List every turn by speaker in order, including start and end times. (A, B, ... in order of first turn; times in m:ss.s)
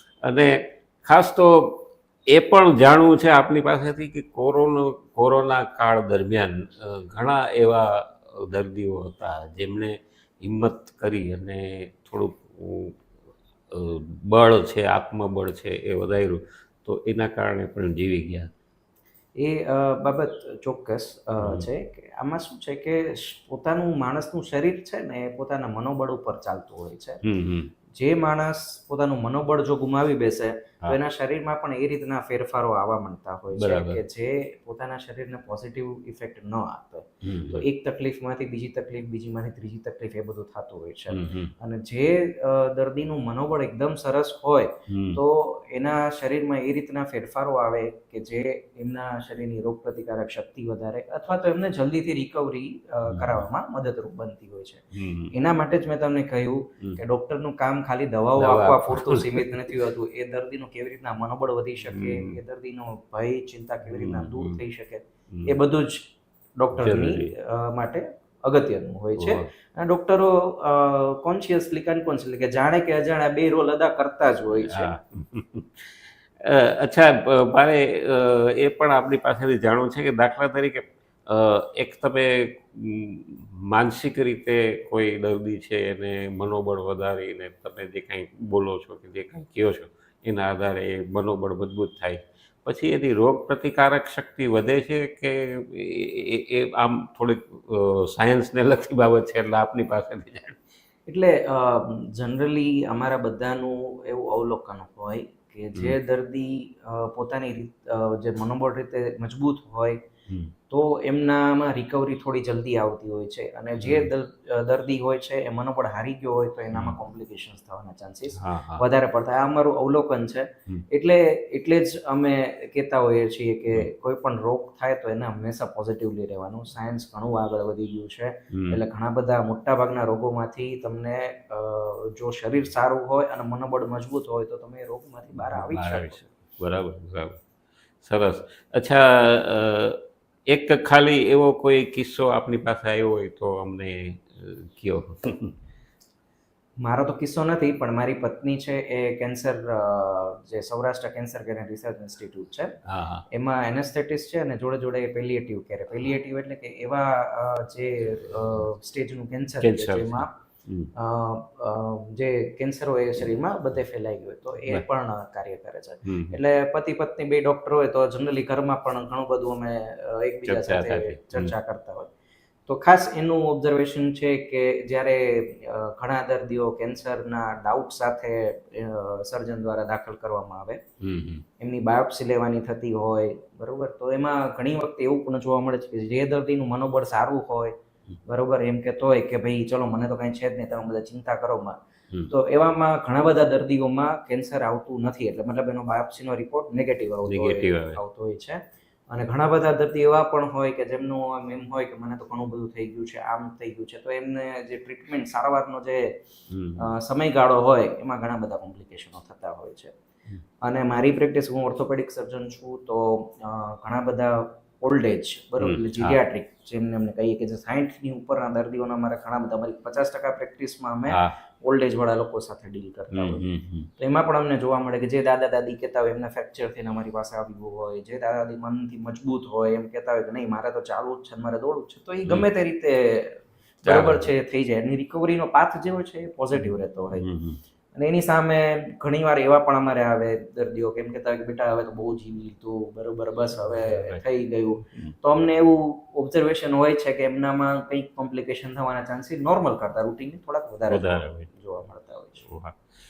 0:00.2-0:13.0 A
0:13.7-0:18.5 A
0:19.4-0:27.2 B
0:21.4-0:21.7 A
0:27.2-0:27.7 A
0:27.9-1:14.9 B
0:33.6-0:34.0 A
0:37.2-0:37.6 A
0:41.1-0:41.5 A
0:44.9-0:45.2 A
0:53.1-0:53.4 A
0:54.9-0:55.3 A
0:58.4-0:59.8 A
1:01.8-1:02.4 A
1:03.9-1:04.6 A
1:06.8-1:07.3 A
1:09.2-1:09.5 A
1:14.6-1:40.6 A
1:41.1-1:50.0 B
1:50.7-2:16.3 B
1:53.8-1:54.1 A
1:56.7-1:57.0 A
1:58.4-1:58.8 A
2:08.5-2:08.8 A
2:15.6-2:17.4 A
2:18.0-2:25.5 A
2:26.8-2:32.8 B
2:32.9-2:33.2 A
2:33.3-2:40.3 B
2:39.6-2:40.9 A
2:41.0-2:52.1 B
2:46.0-2:46.4 A
2:50.5-2:51.5 A
2:52.7-3:00.8 B
3:01.0-3:01.4 A
3:01.6-3:07.7 B
3:08.3-3:11.8 B
3:12.3-3:18.6 B
3:17.3-3:18.0 A
3:19.1-3:26.1 B
3:26.5-3:26.9 A
3:26.8-3:29.9 B
3:30.6-3:43.4 B
3:35.6-3:36.2 A
3:41.1-3:41.4 A
3:43.1-3:43.9 A
3:44.0-3:57.2 B
3:53.8-3:54.3 A
3:56.6-3:57.6 A
3:58.0-4:12.4 B
4:03.8-4:04.2 A
4:10.9-4:11.5 A
4:12.4-4:12.8 A